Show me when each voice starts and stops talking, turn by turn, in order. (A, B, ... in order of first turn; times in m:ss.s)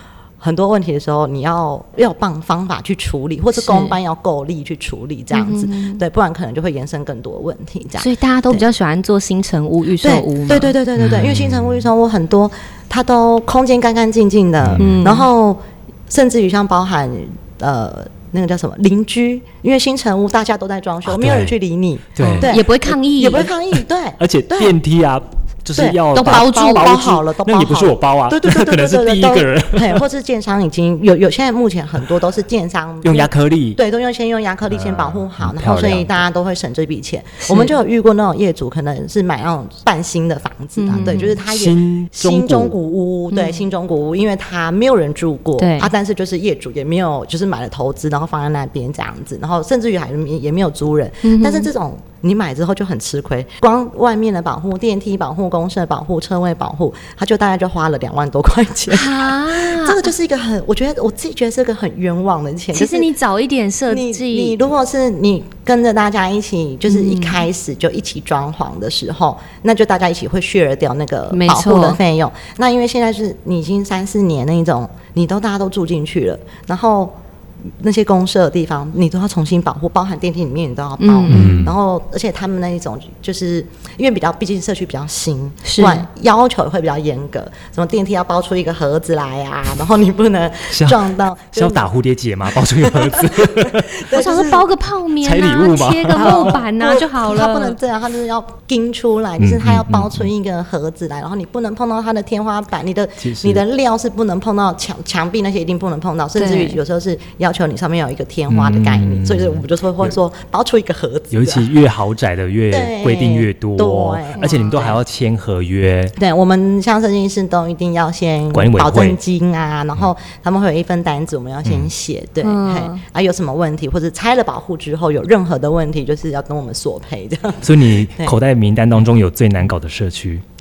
0:00.4-0:08.6 A
0:03.6-0:04.0 B
0:05.3-0:06.0 B
0:08.0-0:10.7 B
0:10.0-0:24.7 A
0:11.0-0:11.8 C
0:14.6-0:15.0 C
0:14.8-0:15.3 B
0:21.0-0:21.5 C
0:22.1-0:22.6 C
0:22.2-0:23.5 B
0:24.2-0:30.0 C
0:25.7-1:03.1 A
0:26.1-0:27.2 B
0:33.0-0:33.8 C
0:34.7-0:36.2 C
0:37.5-0:37.7 B
0:40.8-0:41.3 B
0:41.0-0:42.8 C
0:43.3-0:43.7 B
0:45.6-0:45.9 B
0:51.2-0:51.7 B
0:58.9-1:00.1 B
1:02.7-1:04.6 B
1:03.9-1:17.2 A
1:06.9-1:07.4 B
1:11.3-1:12.0 B
1:17.8-1:31.9 A
1:21.0-1:21.6 B
1:21.3-1:21.7 C
1:25.6-1:26.0 B
1:30.7-1:34.0 C
1:32.8-1:34.7 A
1:34.1-1:37.8 B
1:35.2-1:36.6 C
1:36.1-1:51.7 A
1:39.4-1:40.3 C
1:43.2-1:43.6 C
1:46.4-1:46.8 B
1:48.5-1:50.2 C
1:51.3-1:56.1 C
1:52.7-1:55.0 A
1:54.4-1:54.6 B
1:56.2-2:08.3 A
1:58.5-1:59.2 C
2:01.6-2:01.9 C
2:02.4-2:03.0 B
2:07.6-2:10.4 C